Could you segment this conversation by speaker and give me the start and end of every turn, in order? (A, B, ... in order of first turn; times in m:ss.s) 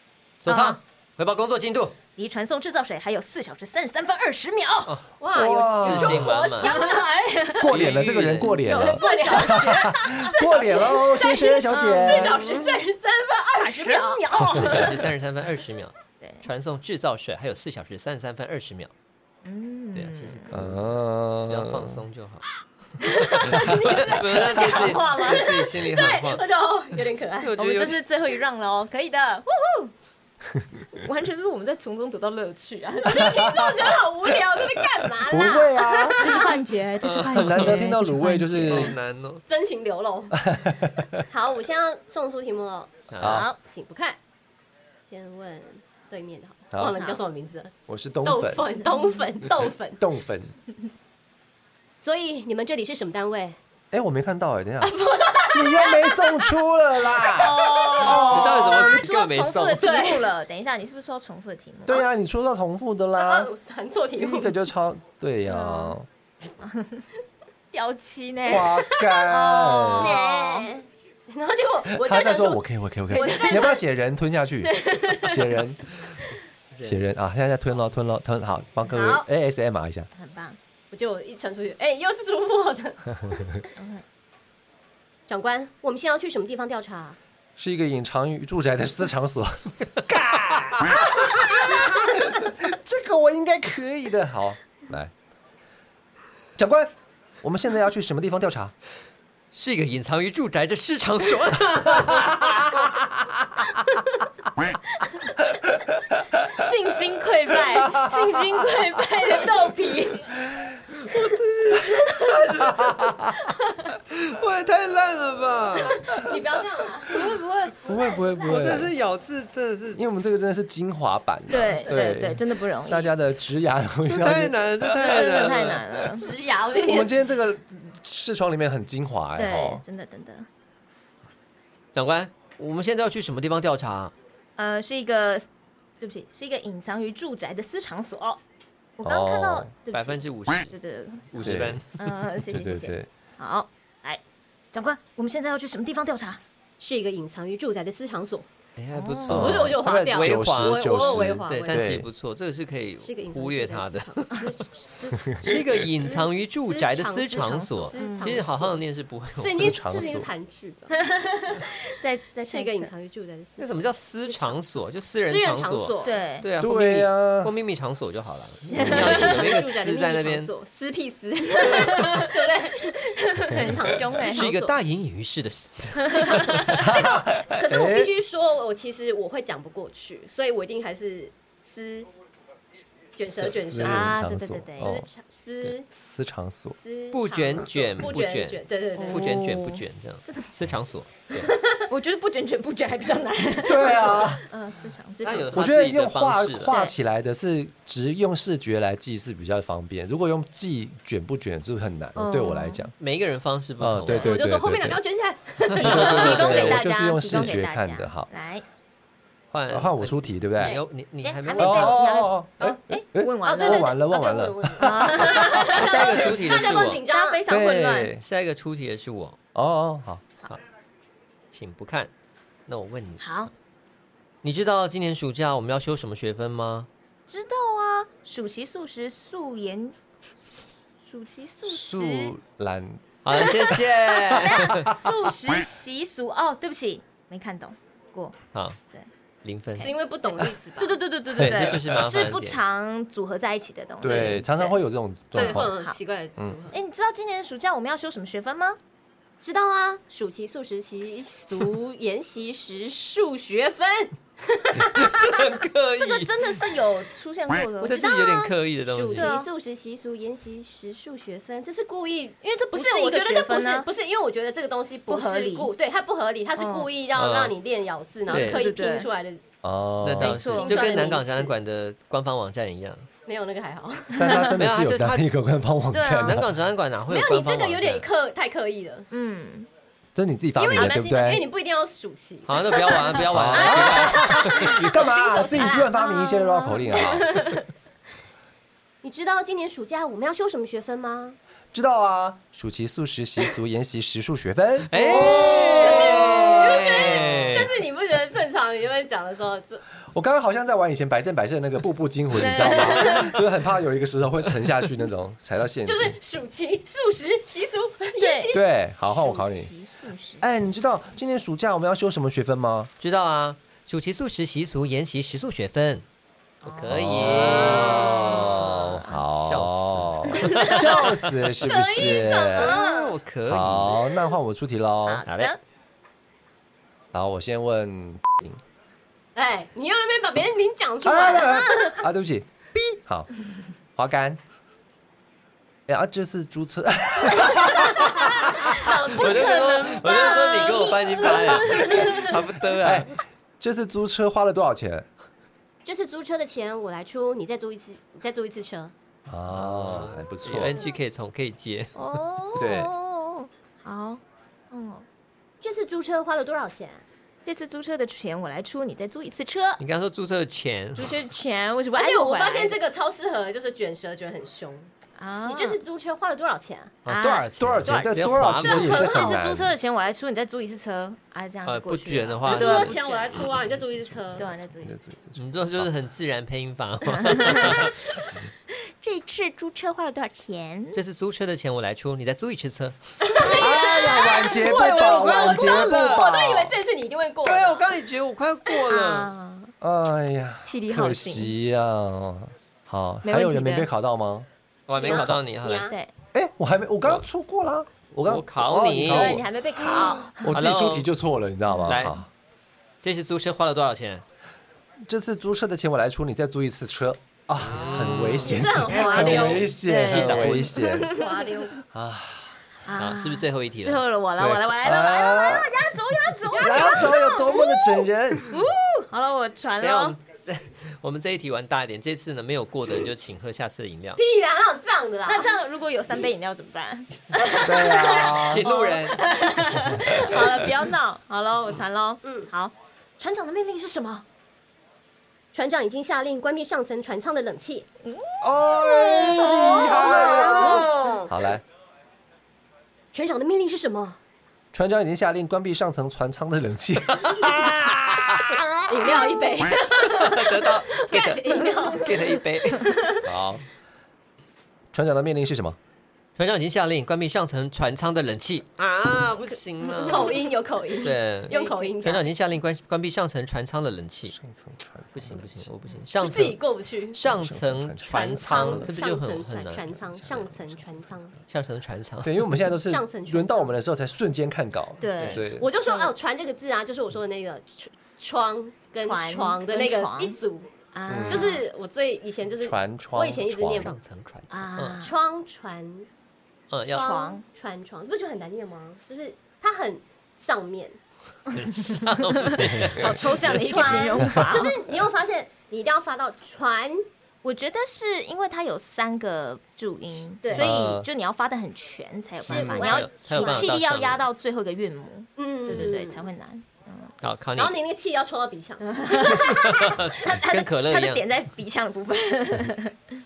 0:00.4-0:02.0 A
0:00.5-0:00.8 B
0:02.2-0:05.0 B
0:05.2-0:07.1 C
0:05.3-0:06.3 D
0:05.8-0:06.8 A
0:06.6-0:07.8 B
0:07.6-0:12.4 D
0:07.6-0:08.6 A
0:08.6-0:14.2 C
0:08.7-0:10.9 B
0:11.6-0:12.8 B
0:13.6-0:15.1 B
0:14.4-0:18.9 A
0:16.2-0:16.5 B
0:19.4-0:20.6 B
0:19.9-0:22.5 A
0:20.5-0:22.0 D
0:23.0-0:25.8 B
0:23.4-0:26.4 A
0:23.5-0:23.8 D
0:25.3-0:27.6 C
0:27.4-0:28.0 A
0:27.6-0:29.9 B
0:30.9-0:33.8 B
0:33.0-0:36.5 C
0:35.3-0:36.4 D
0:36.2-0:38.9 B
0:37.0-0:37.9 A
0:37.3-0:39.0 D
0:38.6-0:39.4 A
0:39.5-0:40.6 C
0:40.5-0:41.2 D
0:41.2-0:42.9 C
0:43.1-0:43.5 A
0:43.2-0:43.5 D
0:43.2-0:43.6 B
0:43.5-0:44.2 C
0:45.1-0:50.0 C
0:46.7-0:47.1 D
0:46.8-0:47.2 B
0:47.9-0:48.7 D
0:48.9-0:49.2 B
0:50.0-0:50.5 D
0:52.0-0:53.6 C
0:53.9-0:58.6 D
0:54.8-0:56.6 C
0:57.2-1:02.0 B
0:58.0-0:59.9 A
0:58.1-0:58.6 C
0:59.8-1:00.3 C
1:01.8-1:03.5 D
1:03.1-1:04.5 C
1:04.2-1:06.1 D
1:05.4-1:06.0 B
1:06.6-1:07.1 B
1:07.7-1:10.7 B
1:08.4-1:10.2 D
1:10.0-1:13.8 C
1:11.8-1:16.0 D
1:13.1-1:13.8 B
1:14.6-1:15.6 B
1:16.7-1:17.0 A
1:16.8-1:20.1 D
1:18.9-1:19.2 C
1:20.1-1:20.6 B
1:20.9-1:23.7 C
1:23.8-1:24.0 B
1:25.3-1:27.2 C
1:27.6-1:35.1 D
1:36.6-1:36.9 D
1:37.4-1:38.7 D
1:39.5-1:43.2 A
1:45.0-1:45.3 B
1:46.4-1:50.4 B
1:47.7-1:48.6 D
1:51.0-1:53.0 A
1:51.9-1:52.7 B
1:52.6-1:53.3 D
1:53.4-1:53.9 B
1:54.1-1:56.1 A
1:56.0-1:57.2 C
1:57.0-1:58.4 B
1:57.8-1:58.9 D
1:58.1-1:58.5 C
1:58.4-2:00.0 A
1:59.9-2:05.2 D
2:01.5-2:03.1 B
2:01.8-2:02.1 C
2:04.1-2:06.0 A
2:04.9-2:06.3 B
2:06.1-2:07.3 C
2:06.8-2:09.8 D
2:09.4-2:10.5 B
2:11.9-2:14.1 A
2:14.6-2:15.5 B
2:16.0-2:18.4 B
2:19.0-2:24.2 B
2:19.0-2:19.7 D
2:19.9-2:20.7 A
2:21.3-2:22.1 A
2:21.4-2:21.8 D
2:22.4-2:23.1 D
2:24.7-2:26.4 B
2:26.8-2:28.5 C
2:28.8-2:34.5 A
2:28.9-2:29.6 B
2:29.3-2:32.1 D
2:29.3-2:31.9 C
2:33.0-2:38.8 C
2:35.3-2:35.5 D
2:35.4-2:39.8 A
2:37.9-2:38.4 B
2:39.4-2:41.0 C
2:39.4-2:40.3 D
2:41.0-2:42.9 B
2:42.4-2:44.6 C
2:43.6-2:50.5 A
2:45.2-2:46.2 C
2:46.0-2:46.5 B
2:46.6-2:47.5 D
2:48.7-2:49.4 B
2:48.7-2:49.3 D
2:48.7-2:54.7 C
2:51.6-2:52.3 B
2:51.6-2:52.1 A
2:53.3-2:54.5 B
2:53.5-2:53.8 D
2:54.2-2:56.7 A
2:56.0-2:56.9 B
2:56.8-2:58.1 D
2:56.8-3:02.1 C
3:03.1-3:04.2 C
3:03.4-3:05.0 D
3:03.8-3:04.9 B
3:04.8-3:05.9 C
3:05.9-3:06.8 D
3:06.8-3:09.4 C
3:07.1-3:11.5 A
3:09.0-3:09.4 B
3:09.2-3:09.8 D
3:11.4-3:15.4 B
3:13.6-3:14.4 D
3:15.1-3:15.6 C
3:15.2-3:16.8 A
3:15.5-3:22.9 D
3:22.2-3:22.9 B
3:23.0-3:24.4 A
3:23.8-3:25.0 D
3:24.2-3:26.4 C
3:25.7-3:26.9 A
3:25.7-3:28.3 D
3:25.8-3:28.6 B
3:29.5-3:32.0 A
3:29.7-3:30.8 D
3:31.2-3:33.9 B
3:31.6-3:35.6 D
3:33.4-3:37.4 C
3:34.8-3:38.2 B
3:35.7-3:37.0 A
3:37.5-3:38.2 D
3:38.2-3:39.4 A
3:39.5-3:40.3 D
3:41.5-3:42.1 A
3:42.7-3:43.2 A
3:43.2-3:43.5 B
3:44.4-3:46.9 A
3:47.3-3:49.9 B
3:51.0-3:52.3 B
3:51.6-3:53.5 D
3:53.2-3:54.9 A
3:53.3-3:58.4 B
3:59.4-3:59.9 A
3:59.8-4:04.7 B
3:59.8-4:01.0 C
4:01.3-4:02.6 A
4:04.0-4:05.7 D
4:04.0-4:04.4 C
4:05.3-4:06.8 C
4:05.3-4:06.0 B
4:06.7-4:08.8 B
4:09.4-4:15.5 C
4:14.8-4:16.8 A
4:16.0-4:19.5 B
4:17.8-4:18.4 C
4:17.8-4:19.3 A
4:19.1-4:29.4 C
4:22.4-4:23.9 B
4:25.1-4:25.7 B
4:26.6-4:26.9 B
4:27.2-4:27.5 A
4:28.3-4:29.1 B
4:28.3-4:28.6 A
4:29.6-4:30.5 D
4:30.0-4:33.1 A
4:30.2-4:31.2 B
4:30.5-4:31.5 C
4:33.2-4:34.4 C
4:34.1-4:36.6 D
4:34.2-4:34.5 B
4:34.5-4:35.3 A
4:35.9-4:36.4 B
4:36.2-4:38.0 A
4:37.1-4:39.1 C
4:39.1-4:39.7 B
4:40.1-4:41.5 D
4:40.6-4:43.2 C
4:40.7-4:41.4 B
4:42.5-4:44.9 A
4:42.9-4:47.7 B
4:43.2-4:47.5 D
4:49.0-4:51.4 C
4:51.7-4:56.6 D
4:54.9-4:57.7 A
4:55.0-4:56.1 B
4:55.1-4:59.8 C
4:56.8-4:57.2 B
5:00.1-5:06.2 D
5:02.3-5:03.4 B
5:05.8-5:08.7 C
5:08.2-5:10.5 B
5:08.5-5:09.7 D
5:10.4-5:12.9 D
5:13.0-5:16.0 A
5:16.6-5:21.3 A
5:16.6-5:19.2 B
5:16.9-5:22.8 D
5:20.6-5:23.0 C
5:22.5-5:24.1 A
5:22.6-5:23.1 B
5:23.5-5:25.2 D
5:25.0-5:25.6 B
5:25.3-5:25.5 A
5:27.1-5:28.6 D
5:29.3-5:32.0 C
5:31.0-5:33.3 D
5:34.0-5:34.4 D
5:35.9-5:38.5 D
5:38.0-5:42.3 B
5:38.2-5:42.2 C
5:38.6-5:43.1 A
5:42.8-5:45.1 D
5:45.8-5:48.9 C
5:49.3-5:50.8 D
5:49.5-5:52.3 A
5:52.0-5:55.0 B
5:52.6-5:52.9 D
5:55.6-5:57.0 C
5:57.4-5:59.8 B
5:59.8-6:01.2 A
6:01.0-6:02.8 B
6:01.9-6:04.9 C
6:05.2-6:05.8 B
6:05.4-6:06.9 C
6:07.0-6:09.3 A
6:07.1-6:13.5 B
6:07.6-6:09.7 D
6:11.6-6:13.0 A
6:12.4-6:14.5 C
6:14.3-6:15.0 B
6:14.8-6:15.4 D
6:15.3-6:18.0 A
6:17.2-6:21.0 B
6:20.9-6:23.5 A
6:23.2-6:27.9 C
6:23.4-6:26.7 D
6:24.5-6:26.4 A
6:27.4-6:29.3 A
6:28.8-6:29.7 B
6:29.8-6:34.5 D
6:30.6-6:31.5 B
6:33.2-6:33.9 B
6:34.9-6:35.9 A
6:35.0-6:36.0 C
6:35.8-6:36.1 B
6:36.3-6:39.9 D
6:38.2-6:41.1 A
6:39.0-6:40.5 B
6:40.4-6:42.3 D
6:41.7-6:42.2 B
6:41.8-6:42.2 A
6:43.0-6:44.2 A
6:45.0-6:51.2 D
6:47.6-6:50.8 A
6:48.4-6:49.7 C
6:48.9-6:51.8 B
6:51.1-6:51.7 C
6:51.9-6:52.6 D
6:52.8-7:00.2 B
6:52.9-6:54.0 A
6:54.4-6:56.0 D
6:56.5-6:57.2 C
6:56.5-6:58.5 D
6:59.8-7:04.2 A
7:04.2-7:05.5 C
7:05.3-7:14.2 B
7:07.5-7:08.7 D
7:07.6-7:09.2 A
7:08.7-7:09.0 C
7:12.2-7:12.5 C
7:15.5-7:17.8 C
7:18.0-7:20.8 B
7:18.4-7:21.6 D
7:19.4-7:21.3 C
7:23.1-7:24.2 C
7:24.7-7:28.6 D
7:28.9-7:32.1 C
7:30.0-7:32.2 B
7:30.0-7:32.9 A
7:32.7-7:33.3 B
7:33.2-7:33.6 D
7:34.9-7:35.8 D
7:36.4-7:40.4 A
7:39.8-7:40.5 B
7:40.0-7:42.2 C
7:41.0-7:44.4 A
7:41.5-7:41.9 B
7:44.3-7:45.7 D
7:45.1-7:46.6 A
7:46.2-7:47.2 C
7:47.1-7:50.0 A
7:47.2-7:48.9 D
7:48.0-7:51.3 C
7:50.2-7:50.8 D
7:51.5-7:52.5 A
7:52.2-7:55.7 D
7:52.8-7:53.7 C
7:55.0-7:56.1 B
7:55.2-7:55.4 A
7:55.4-8:00.7 C
7:59.0-8:00.4 B
8:00.9-8:01.6 B
8:01.1-8:01.5 D
8:01.2-8:04.0 C
8:02.6-8:03.9 D
8:03.7-8:05.0 A
8:04.5-8:05.1 B
8:05.0-8:06.1 C
8:06.7-8:07.1 A
8:06.8-8:11.0 C
8:06.9-8:07.4 B
8:11.5-8:14.0 A
8:12.3-8:14.8 B
8:13.4-8:17.0 C
8:17.4-8:27.1 B
8:20.4-8:20.7 C
8:20.5-8:21.1 D
8:22.4-8:23.7 C
8:22.5-8:22.9 D
8:22.5-8:24.2 A
8:25.4-8:26.3 C
8:27.2-8:27.8 A
8:27.6-8:29.3 C
8:28.8-8:33.0 B
8:29.1-8:31.3 A